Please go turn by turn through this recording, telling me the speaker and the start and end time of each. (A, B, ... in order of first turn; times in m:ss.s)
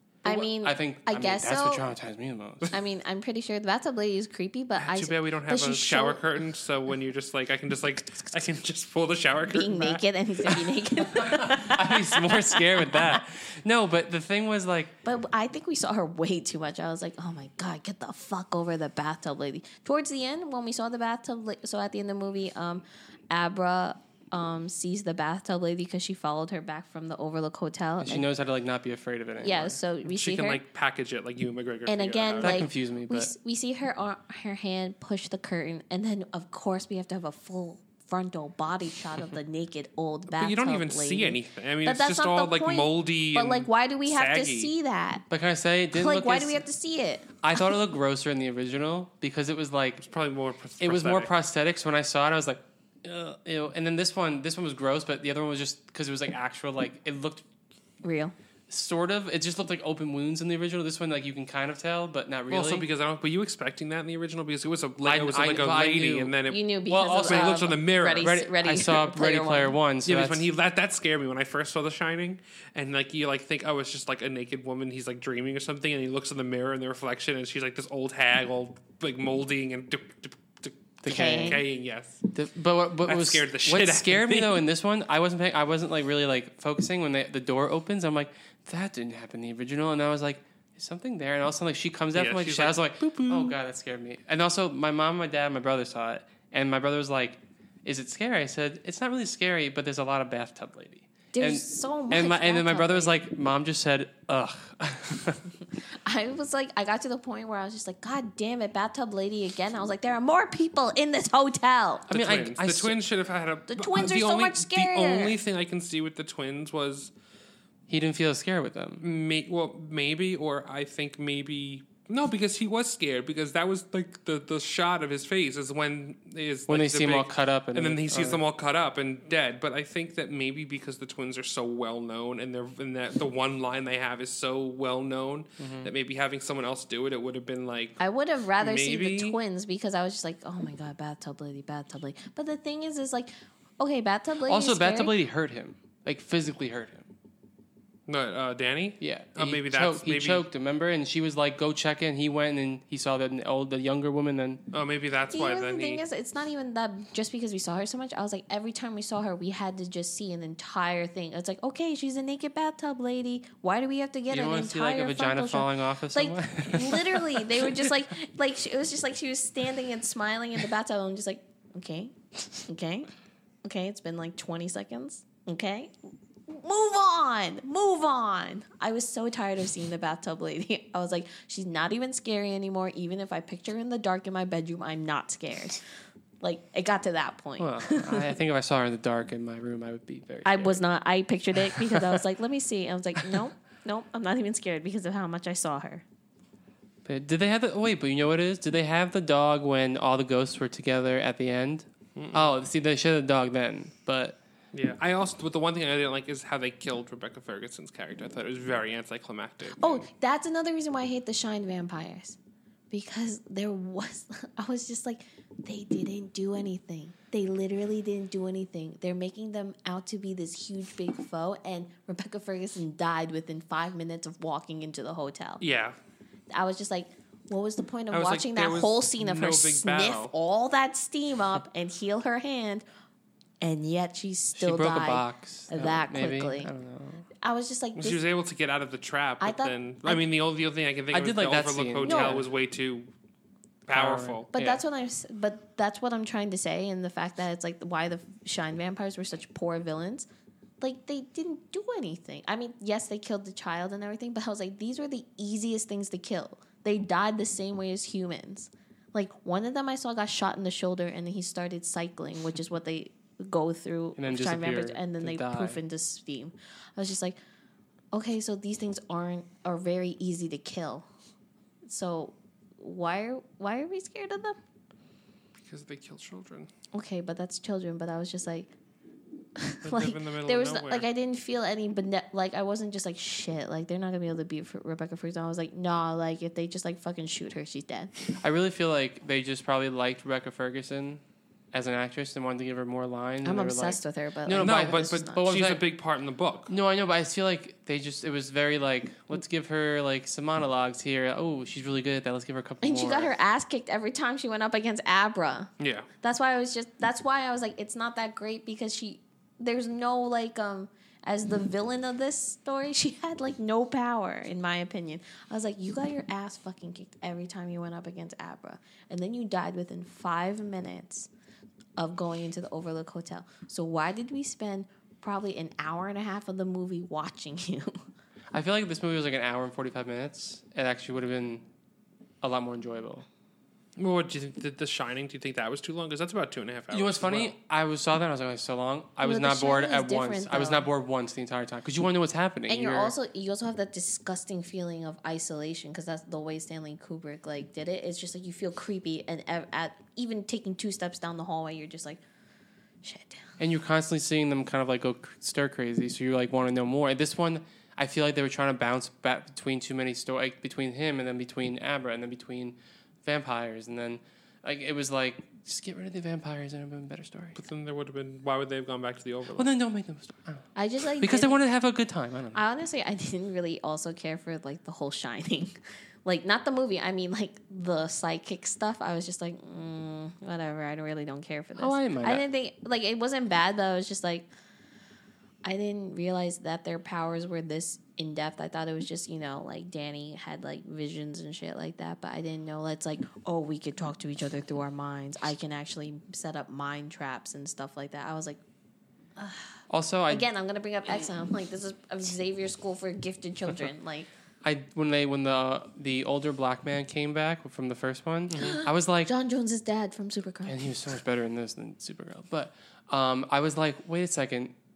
0:00.2-0:01.9 A
0:00.2-0:02.7 B
0:02.7-0:06.2 A
0:04.8-0:10.6 C
0:09.4-0:13.2 A
0:11.1-0:14.9 B
0:15.0-0:28.2 A
0:28.0-0:29.8 B
0:29.4-0:30.6 A
0:30.1-0:32.7 C
0:31.9-0:45.2 A
0:32.4-0:33.3 B
0:40.3-0:44.7 C
0:45.3-0:46.6 B
0:45.9-0:47.6 A
0:47.4-0:50.0 B
0:50.0-0:51.3 C
0:50.8-0:57.4 B
0:58.0-0:58.3 A
0:58.7-1:02.9 B
1:02.5-1:06.6 C
1:05.0-1:06.3 B
1:06.5-1:09.7 A
1:06.9-1:10.5 B
1:07.3-1:08.3 C
1:10.0-1:22.2 C
1:21.0-1:21.6 B
1:21.1-1:21.6 A
1:22.3-1:45.4 B
1:23.0-1:24.6 C
1:32.2-1:33.6 C
1:41.3-1:43.2 A
1:46.0-1:52.1 A
1:52.1-1:53.0 B
1:52.1-1:57.1 C
1:53.7-1:55.4 A
1:57.9-1:59.0 B
1:59.0-2:18.0 C
2:06.7-2:08.4 B
2:15.6-2:15.9 B
2:18.0-2:25.1 A
2:18.6-2:19.4 C
2:24.5-2:27.1 B
2:28.1-2:30.5 C
2:29.0-2:34.6 B
2:34.7-2:36.0 C
2:35.3-2:53.1 A
2:44.3-2:47.9 B
2:53.6-2:55.9 A
2:56.5-3:05.8 A
3:06.4-3:08.4 A
3:07.6-3:10.8 B
3:10.4-3:16.0 A
3:11.9-3:12.2 B
3:17.0-3:24.4 B
3:22.2-3:22.5 C
3:24.7-3:30.1 C
3:29.8-3:32.4 A
3:32.9-3:45.6 A
3:45.6-3:46.0 C
3:46.5-3:52.8 A
3:48.1-3:50.3 C
3:53.6-3:56.7 A
3:54.6-3:57.3 B
3:57.4-3:58.2 A
3:58.0-4:03.1 C
3:59.4-4:00.2 A
4:01.1-4:02.4 B
4:02.0-4:02.4 A
4:03.9-4:04.5 C
4:03.9-4:04.8 B
4:04.5-4:10.3 A
4:10.8-4:27.4 A
4:24.2-4:25.8 B
4:28.1-4:31.1 A
4:31.8-4:34.6 A
4:35.6-4:36.7 C
4:36.9-4:38.7 A
4:39.6-4:48.1 A
4:39.8-4:41.1 C
4:48.4-4:51.2 B
4:51.7-4:55.8 B
4:53.4-4:55.4 A
4:54.6-4:56.7 C
4:56.7-5:03.3 B
5:02.8-5:05.7 A
5:05.8-5:06.1 C
5:06.2-5:21.3 A
5:22.0-5:28.0 A
5:28.5-5:31.6 B
5:32.4-5:33.3 B
5:34.0-5:37.6 C
5:36.9-5:43.1 B
5:39.2-5:40.9 A
5:42.7-5:52.2 A
5:53.0-5:53.4 A
5:53.6-6:07.6 B
6:07.6-6:09.7 C
6:09.6-6:10.7 B
6:10.8-6:11.6 A
6:11.2-6:12.6 B
6:12.5-6:15.7 A
6:16.2-6:24.5 A
6:21.8-6:22.4 B
6:25.6-6:38.6 A
6:39.4-6:39.8 A
6:39.9-6:40.5 B
6:40.3-6:44.3 A
6:44.6-6:49.3 B
6:48.5-6:48.8 C
6:48.6-6:50.9 A
6:50.7-6:54.7 B